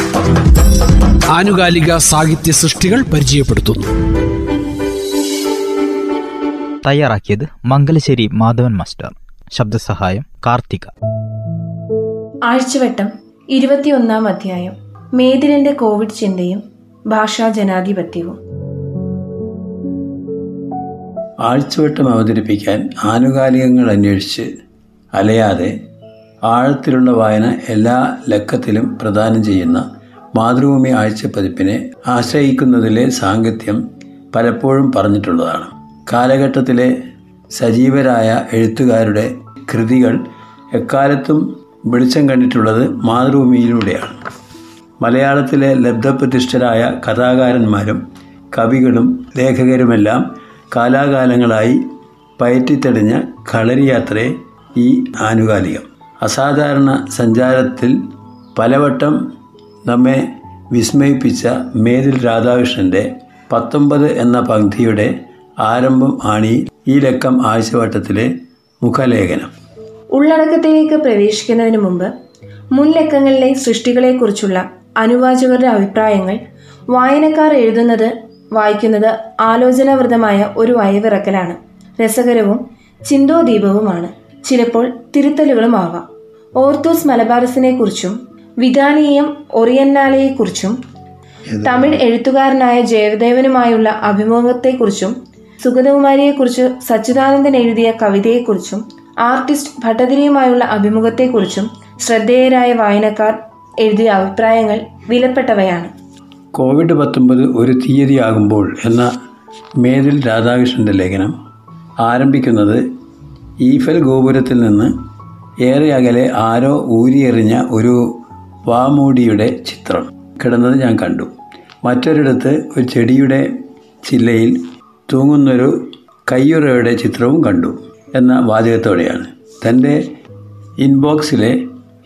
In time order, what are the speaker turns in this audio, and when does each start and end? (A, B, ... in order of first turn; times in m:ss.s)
0:01.3-0:03.9 A
0:06.8-0:10.9 B
0:12.4-0:18.4 C
0:21.4-0:24.5 D
0:25.1-0:25.7 D
0:26.5-0:29.8 D
0:30.4-0:33.8 D
0:34.3-0:36.9 D
0:37.5-0:40.2 D
0:40.7-0:44.2 D
0:45.0-0:48.0 D
0:48.5-0:51.8 D
0:52.4-0:57.9 D
0:58.6-0:59.2 D
0:59.9-1:05.1 D
1:05.6-1:08.3 D
1:08.8-1:09.5 D
1:10.1-1:12.1 C
1:12.7-1:16.4 C
1:16.9-1:26.0 C
1:26.6-1:30.8 C
1:31.6-1:45.9 C
1:46.5-1:49.1 D
1:49.8-1:51.3 D
1:52.0-1:52.8 D
1:53.6-1:54.9 D
1:55.6-1:58.0 D
1:58.7-2:01.3 D
2:01.8-2:03.5 D
2:04.0-2:04.6 D
2:05.1-2:05.7 D
2:06.3-2:10.0 D
2:10.8-2:11.6 D